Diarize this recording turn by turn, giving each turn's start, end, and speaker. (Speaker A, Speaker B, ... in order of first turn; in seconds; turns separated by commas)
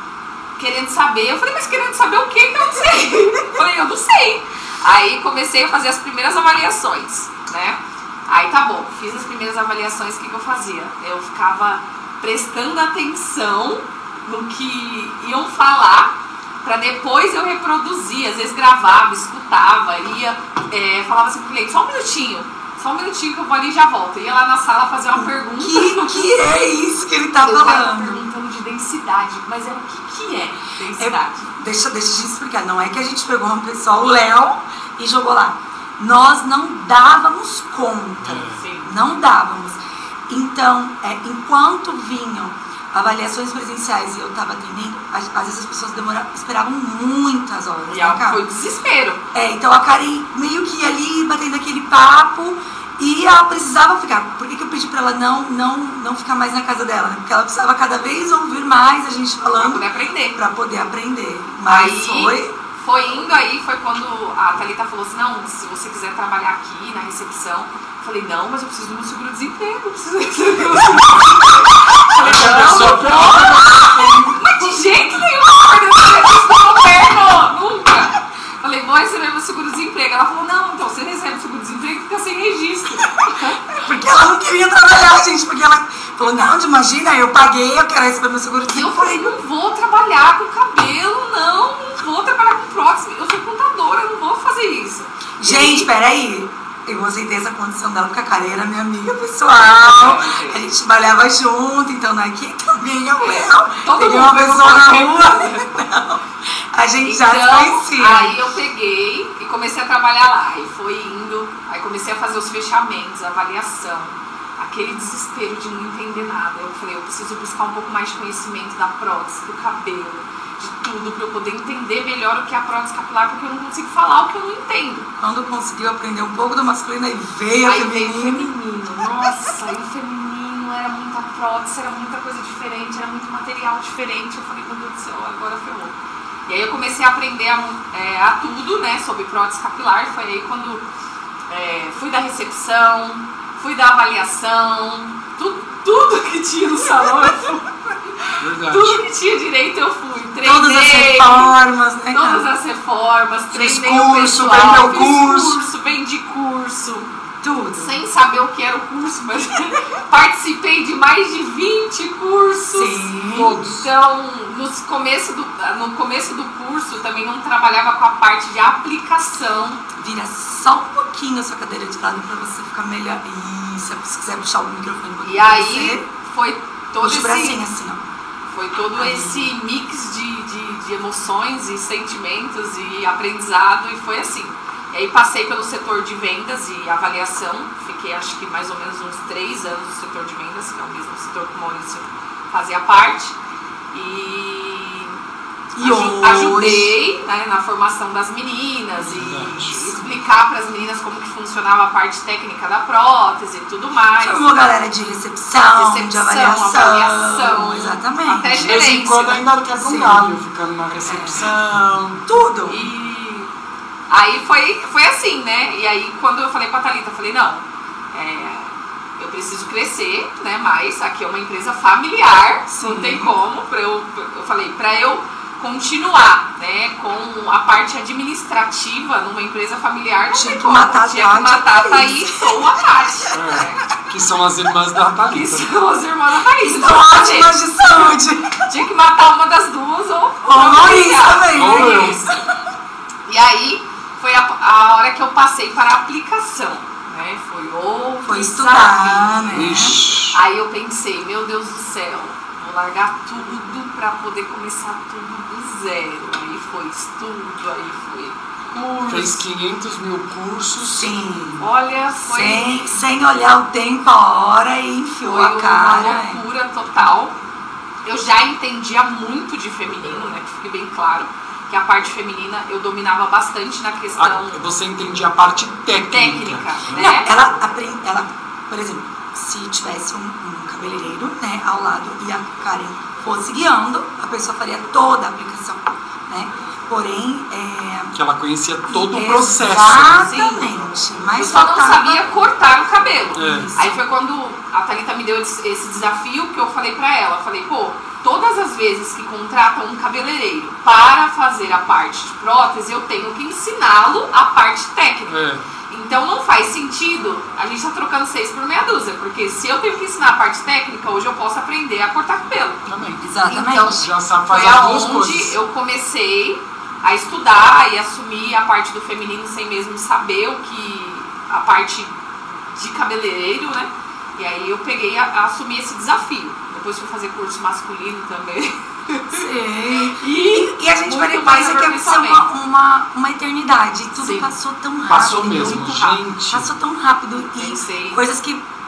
Speaker A: 0.6-26.3, Speaker B: 25.1-28.2, Speaker A: 27.4-31.5, Speaker B: 31.0-48.4, Speaker C: 38.2-38.6, Speaker A: 38.6-38.9, Speaker A: 47.9-49.2, Speaker B: 49.3-62.5, Speaker A: 59.5-60.4, Speaker A: 61.7-83.7, Speaker C: 72.2-74.5, Speaker B: 83.8-89.3, Speaker A: 88.7-95.9, Speaker B: 95.4-108.3, Speaker A: 99.6-100.7, Speaker A: 103.2-105.7, Speaker A: 107.0-125.1, Speaker B: 125.2-128.5, Speaker A: 127.7-136.0, Speaker A: 136.5-140.8, Speaker A: 141.5-151.5, Speaker C: 148.4-149.0, Speaker B: 150.4-152.5, Speaker A: 152.1-157.1, Speaker C: 153.5-155.6, Speaker B: 157.4-157.9, Speaker A: 157.8-169.8, Speaker B: 162.7-163.6, Speaker C: 163.3-163.8, Speaker B: 170.0-176.0, Speaker A: 175.2-177.6, Speaker B: 177.0-178.0, Speaker A: 178.5-193.3, Speaker B: 179.0-179.5, Speaker A: 193.9-195.2, Speaker B: 195.8-197.0, Speaker A: 195.8-204.5, Speaker C: 199.0-200.0, Speaker B: 204.2-208.9, Speaker A: 205.8-209.4, Speaker C: 208.5-212.2, Speaker B: 209.8-210.3, Speaker B: 211.1-211.5, Speaker B: 212.3-212.8, Speaker A: 212.7-213.5, Speaker A: 214.1-233.8, Speaker B: 222.7-223.3, Speaker B: 230.3-232.6, Speaker C: 233.3-235.7, Speaker A: 235.3-238.1, Speaker B: 236.6-238.7, Speaker A: 238.7-242.4, Speaker B: 240.4-242.3, Speaker C: 241.5-242.3, Speaker A: 243.3-259.4, Speaker B: 248.3-250.0, Speaker C: 249.5-250.4, Speaker C: 258.7-261.2, Speaker B: 260.9-261.7, Speaker A: 261.6-263.0, Speaker B: 262.3-266.4, Speaker A: 265.2-267.4, Speaker A: 268.0-274.6, Speaker C: 274.2-277.1, Speaker A: 276.1-277.3, Speaker B: 277.0-288.1, Speaker C: 288.1-290.3, Speaker B: 288.9-292.3, Speaker A: 290.1-290.8, Speaker A: 291.4-305.4, Speaker C: 293.4-293.8, Speaker B: 293.4-294.0, Speaker C: 305.3-305.6, Speaker A: 305.9-312.9, Speaker C: 312.9-313.2, Speaker B: 313.2-314.0, Speaker A: 313.4-329.5, Speaker C: 313.8-315.5, Speaker B: 329.3-338.6, Speaker A: 330.1-332.5, Speaker A: 334.2-334.5, Speaker C: 335.1-336.7, Speaker A: 335.1-336.2, Speaker A: 337.6-338.2